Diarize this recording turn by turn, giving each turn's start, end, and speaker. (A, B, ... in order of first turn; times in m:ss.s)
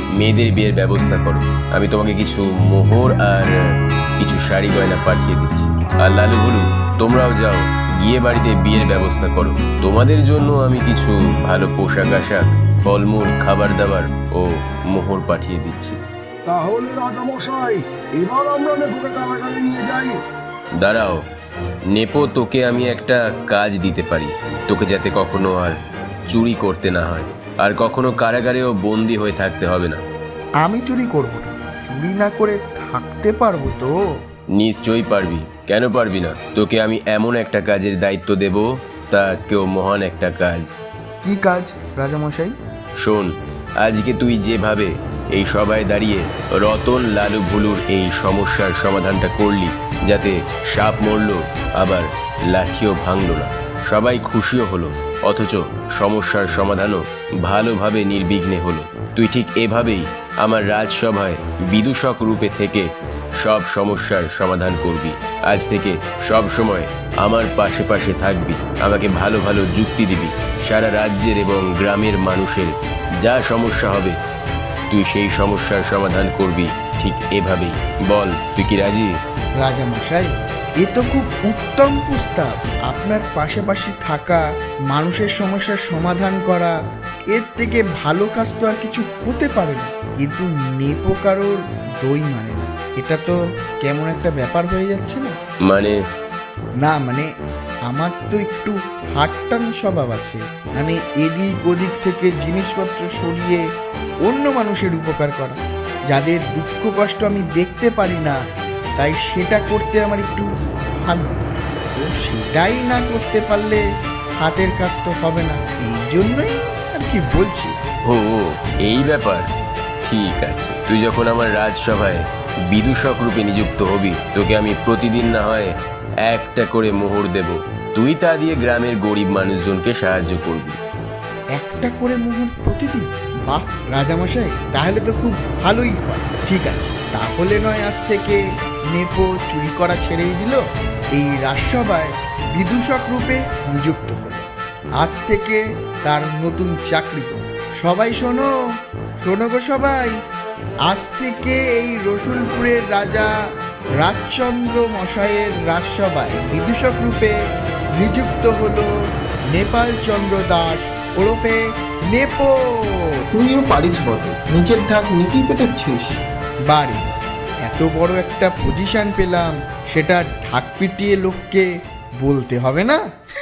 0:00.2-0:03.5 A
0:04.2-0:16.0 A
0:16.5-0:20.1 B
0:20.8-0:21.2 A
0:21.9-0:25.8 A
0:26.3-0:30.0 A
0:30.6-0:33.9 C
0:34.6-0:40.7 A
0:41.2-0:42.5 C
0:43.0-0:43.3 A
0:43.8-1:02.9 A
1:03.4-1:14.2 A
1:14.9-1:19.1 A
1:19.6-1:26.8 C
1:27.3-1:35.4 C
1:35.7-1:36.0 A
1:36.8-1:37.3 C
1:37.9-1:43.6 C
1:44.2-1:45.6 C
1:46.1-1:48.4 C
1:49.0-1:53.8 C
1:54.4-1:57.8 C
1:58.1-1:59.4 A
2:00.0-2:05.7 A
2:06.2-2:10.8 A
2:11.6-2:18.4 C
2:18.9-2:20.6 C
2:21.1-2:24.5 C
2:25.0-2:28.5 C
2:29.2-2:30.1 C
2:30.9-2:33.3 C
2:34.0-2:37.4 C
2:38.0-2:38.9 C
2:39.5-2:41.6 C
2:42.1-2:43.1 C
2:43.3-2:46.2 D
2:46.7-2:47.0 C
2:47.7-2:51.7 C
2:52.2-2:53.0 C